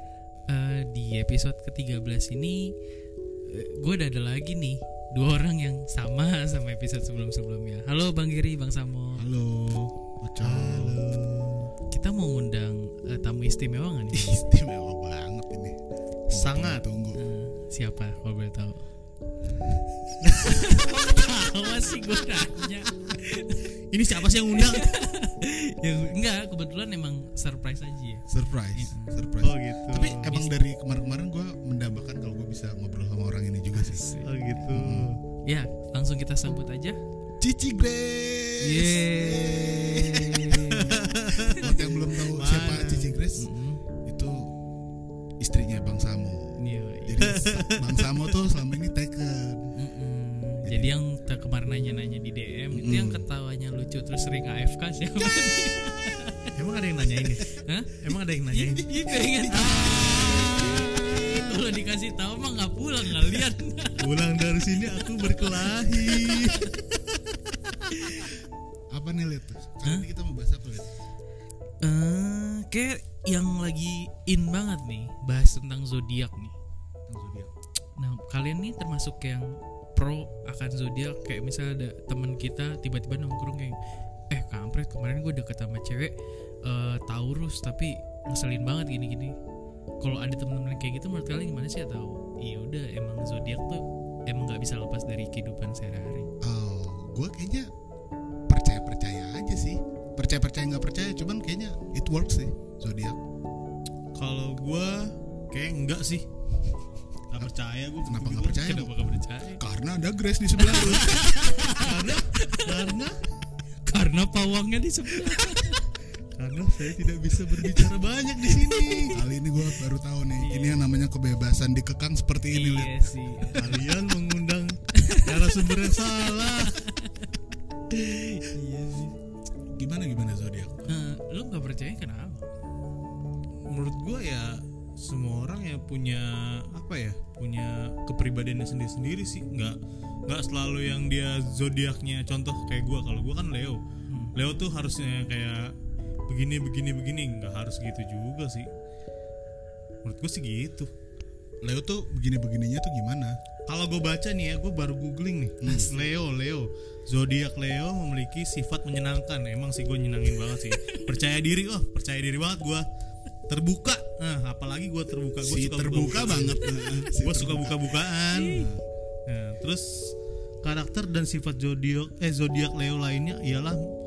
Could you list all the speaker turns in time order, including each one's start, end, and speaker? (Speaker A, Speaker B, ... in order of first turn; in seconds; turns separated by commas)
Speaker A: 0.5-2.7, Speaker A: 3.5-9.3, Speaker B: 9.2-11.0, Speaker C: 10.4-11.7, Speaker A: 11.9-14.5, Speaker B: 14.1-15.8, Speaker B: 16.3-17.2, Speaker C: 16.3-16.8, Speaker A: 17.1-18.8, Speaker C: 20.2-21.3, Speaker A: 20.2-23.8, Speaker C: 23.9-24.9, Speaker A: 24.5-29.2, Speaker B: 28.3-34.1, Speaker C: 29.4-30.4, Speaker A: 33.7-34.4, Speaker C: 34.2-35.2, Speaker B: 34.7-35.1, Speaker A: 35.5-37.0, Speaker B: 37.4-43.5, Speaker A: 38.6-41.8, Speaker C: 40.8-43.2, Speaker A: 43.3-43.8, Speaker B: 44.0-44.5, Speaker B: 45.4-49.7, Speaker A: 46.6-47.4, Speaker C: 47.2-48.3, Speaker A: 49.7-56.5, Speaker B: 50.6-50.9, Speaker B: 52.7-53.3, Speaker C: 56.5-60.8, Speaker A: 57.4-64.2, Speaker B: 59.5-61.3, Speaker C: 64.0-66.8, Speaker A: 65.0-66.7, Speaker C: 67.7-68.2, Speaker A: 67.9-68.3, Speaker B: 68.9-70.9, Speaker A: 71.8-76.5, Speaker B: 77.1-77.5, Speaker A: 78.0-83.8, Speaker A: 84.3-86.1, Speaker A: 86.6-89.3, Speaker A: 90.0-96.3, Speaker B: 96.4-97.7, Speaker B: 98.5-103.2, Speaker C: 104.2-106.3, Speaker C: 107.3-108.9, Speaker B: 108.0-109.0, Speaker A: 108.5-109.6, Speaker B: 109.6-111.3, Speaker A: 110.6-112.9, Speaker C: 111.7-113.2, Speaker A: 113.8-115.8, Speaker C: 116.4-119.2, Speaker A: 118.6-119.2, Speaker B: 119.1-123.0, Speaker A: 120.4-120.8, Speaker A: 122.5-123.9, Speaker C: 123.5-126.9, Speaker A: 124.9-125.3, Speaker A: 126.6-127.3, Speaker A: 127.9-129.2, Speaker B: 129.7-130.9, Speaker A: 130.9-132.4, Speaker C: 133.6-143.8, Speaker A: 144.1-144.3, Speaker C: 144.3-145.7, Speaker C: 146.3-148.7, Speaker C: 150.0-150.9, Speaker B: 151.6-153.4, Speaker C: 153.7-162.9, Speaker B: 155.6-155.9, Speaker C: 163.5-168.7, Speaker B: 165.4-168.8, Speaker A: 166.7-167.1, Speaker A: 168.3-168.7, Speaker C: 169.3-173.8